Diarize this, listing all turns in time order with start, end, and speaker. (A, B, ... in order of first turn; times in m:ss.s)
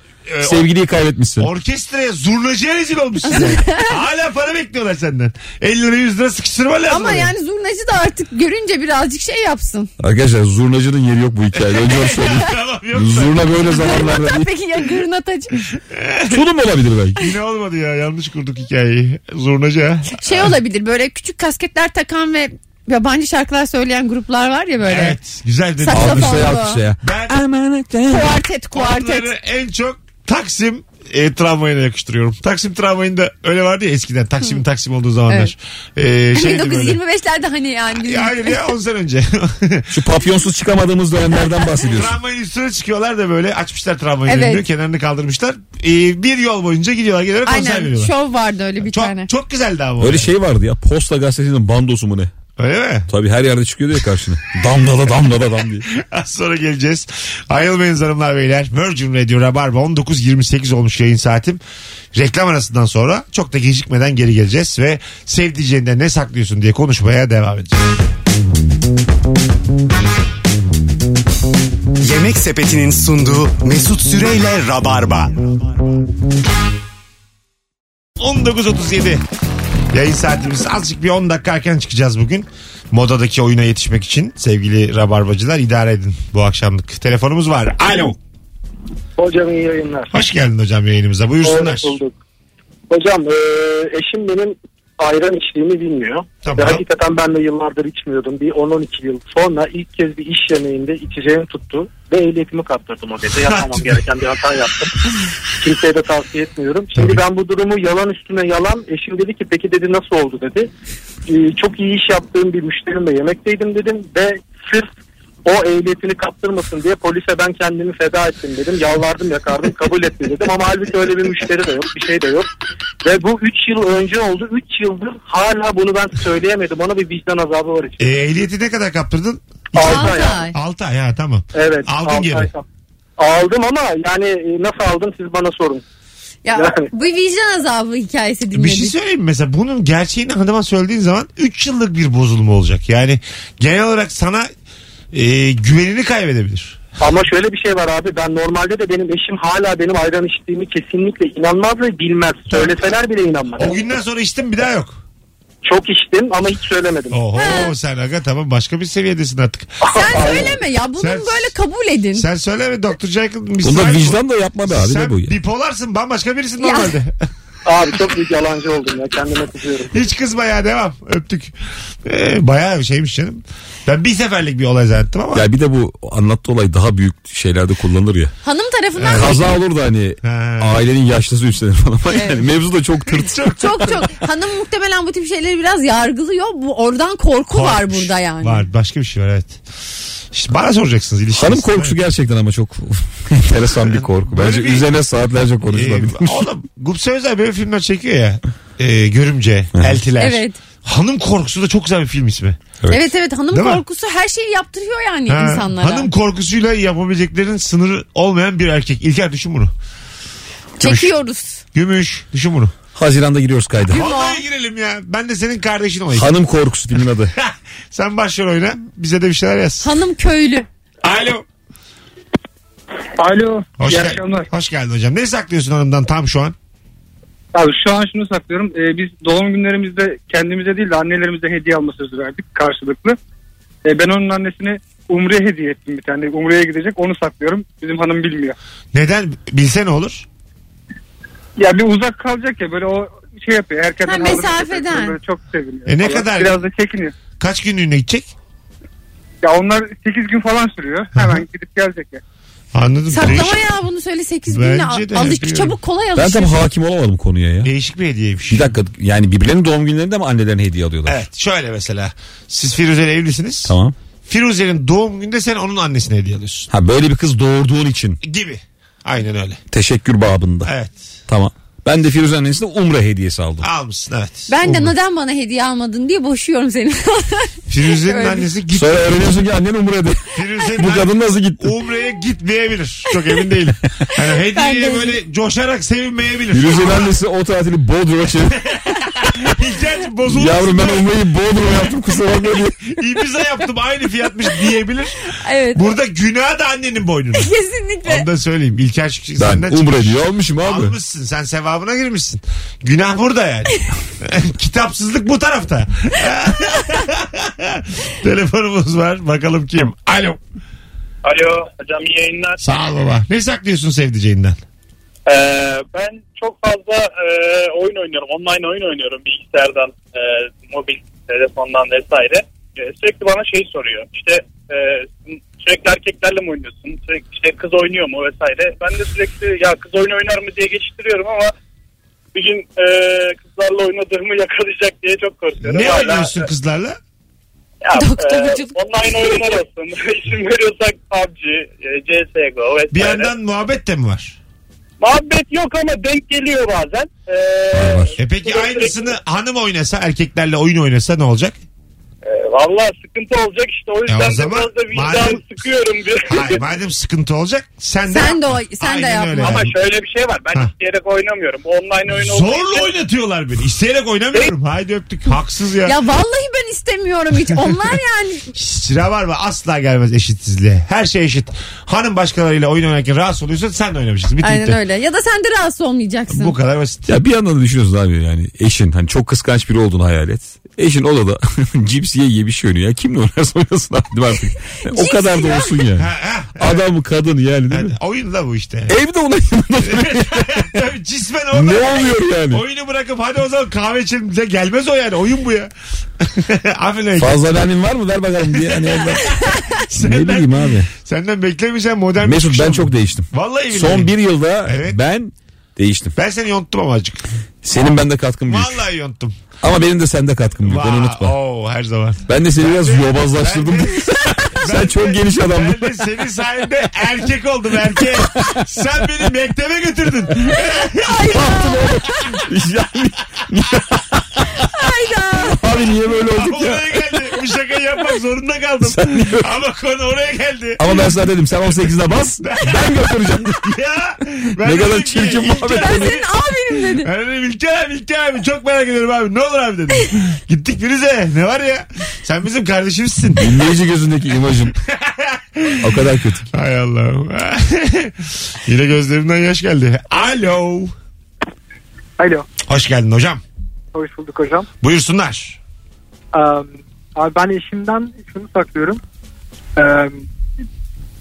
0:00.3-0:00.7 A
0:00.4-0:01.5 B
0:01.4-0:07.3 A
0:03.3-0:03.9 C
0:06.9-0:09.9 C
0:10.0-0:14.5 B
0:11.5-0:14.0 A
0:13.7-0:15.6 C
0:15.8-0:16.4 A
0:16.3-0:17.2 B
0:17.2-0:20.6 A
0:20.1-0:25.2 C
0:24.8-0:27.4 A
0:25.8-0:26.8 C
0:25.9-0:28.4 B
0:28.1-0:29.3 C
0:28.7-0:37.0 A
0:36.4-0:38.6 C
0:37.9-0:40.1 A
0:39.9-0:42.1 B
0:41.8-0:48.1 A
0:44.3-0:44.6 C
0:47.5-0:49.3 C
0:48.8-0:50.3 A
0:50.0-0:52.3 B
0:52.6-0:53.1 A
0:53.1-0:55.9 B
0:55.9-1:01.6 A
1:02.1-1:07.8 A
1:12.0-1:15.5 D
1:18.2-1:19.2 A
1:19.9-1:28.2 A
1:29.2-1:30.1 E
1:30.1-1:32.0 A
1:31.4-1:32.1 E
1:32.9-1:44.9 E
1:36.4-1:36.8 A
1:43.5-1:43.8 A
1:45.6-1:50.7 E
1:47.0-1:47.2 A
1:51.3-1:54.9 E
1:55.4-2:02.5 E
2:03.0-2:08.1 E
2:08.0-2:12.5 A
2:09.8-2:10.4 E
2:09.8-2:10.6 C
2:11.5-2:12.6 E
2:13.2-2:15.8 E
2:16.4-2:18.9 C
2:16.6-2:16.9 E
2:18.5-2:24.5 A
2:25.1-2:26.8 A
2:27.0-2:33.8 E
2:33.6-2:35.0 A
2:35.6-2:37.2 E
2:37.1-2:41.6 A
2:37.4-2:37.8 C
2:39.8-2:40.6 E
2:39.9-2:42.3 C
2:42.2-2:47.2 A
2:43.6-2:45.4 B
2:46.6-2:47.0 C
2:47.6-2:50.0 E
2:49.9-2:55.5 A
2:55.3-2:58.3 B
2:58.4-2:59.5 C
2:59.0-2:59.5 A
2:59.1-3:03.6 B
3:00.2-3:00.8 A
3:03.1-3:04.1 A
3:03.6-3:08.6 C
3:07.5-3:09.6 A
3:10.3-3:12.0 A
3:11.3-3:16.5 B
3:13.8-3:14.9 A
3:15.6-3:22.6 A
3:20.2-3:20.6 C
3:22.9-3:26.1 C
3:23.5-3:23.8 A
3:25.3-3:29.7 A
3:30.8-3:31.6 C
3:30.8-3:31.1 A
3:31.7-3:32.7 A
3:33.0-3:34.0 B
3:33.9-3:36.4 A
3:33.9-3:34.4 C
3:36.1-3:37.3 B
3:37.4-3:39.9 A
3:39.8-3:40.7 C
3:41.0-3:41.4 A
3:43.2-3:44.5 F
3:43.8-3:46.6 A
3:47.5-3:53.2 F
3:53.8-3:58.6 F
3:58.9-4:00.3 A
4:01.6-4:07.1 F
4:04.0-4:05.2 C
4:05.9-4:06.6 A
4:07.4-4:08.3 A
4:09.4-4:12.2 F
4:11.2-4:11.4 A
4:12.7-4:13.6 A
4:13.1-4:16.5 C
4:14.5-4:15.8 A
4:16.2-4:17.7 B
4:17.6-4:18.8 A
4:18.5-4:21.2 B
4:21.1-4:23.8 A
4:23.7-4:24.0 B
4:24.3-4:26.7 A
4:26.7-4:28.2 B
4:28.2-4:29.6 A
4:29.7-4:30.7 B
4:30.6-4:31.0 A
4:31.3-4:33.7 B
4:33.6-4:34.5 A
4:34.5-4:38.5 C
4:34.6-4:34.9 B
4:37.7-4:39.4 A
4:38.7-4:41.7 B
4:40.4-4:47.1 A
4:44.5-4:45.2 C
4:46.5-4:48.7 B
4:48.7-4:51.1 A
4:50.3-4:52.8 B
4:52.8-4:57.5 A
4:55.4-4:55.9 C
4:57.4-4:58.3 C
4:58.0-5:10.4 A
4:59.4-5:01.0 B
5:11.2-5:12.6 G
5:12.6-5:14.6 A
5:15.3-5:31.5 G
5:32.3-5:36.5 G
5:35.6-5:37.0 A
5:37.8-5:43.3 G
5:37.9-5:39.6 C
5:42.9-5:44.4 A
5:45.0-5:49.2 G
5:47.7-5:48.1 B
5:48.2-5:51.6 A
5:52.2-5:56.6 G
5:54.1-5:55.4 A
5:56.2-5:59.8 A
5:58.1-5:59.7 C
5:59.4-6:03.0 G
6:02.1-6:06.0 A
6:05.9-6:08.5 C
6:08.5-6:14.8 A
6:14.4-6:16.6 C
6:16.3-6:17.1 A
6:17.1-6:27.9 B
6:24.9-6:25.8 C
6:26.0-6:26.8 A
6:27.7-6:29.0 A
6:28.9-6:30.7 B
6:29.8-6:37.4 A
6:31.5-6:32.6 B
6:37.2-6:40.9 B
6:38.5-6:45.0 A
6:42.2-6:46.2 B
6:46.2-6:47.2 A
6:47.6-6:48.8 B
6:48.5-6:49.4 A
6:49.6-6:51.4 B
6:50.6-7:01.4 A
6:52.3-6:55.9 B
7:01.0-7:02.1 C
7:01.3-7:04.5 B
7:04.6-7:05.6 C
7:05.5-7:07.0 B
7:06.2-7:11.0 A
7:08.8-7:09.5 B
7:10.8-7:13.7 B
7:12.4-7:23.6 A
7:14.6-7:16.2 B
7:15.6-7:17.1 C
7:23.4-7:24.8 B
7:24.9-7:30.9 A
7:25.8-7:26.5 B
7:32.2-7:32.5 F
7:32.6-7:33.4 A
7:33.9-7:34.7 F
7:34.8-7:35.6 A
7:36.3-7:39.0 F
7:39.8-7:40.2 F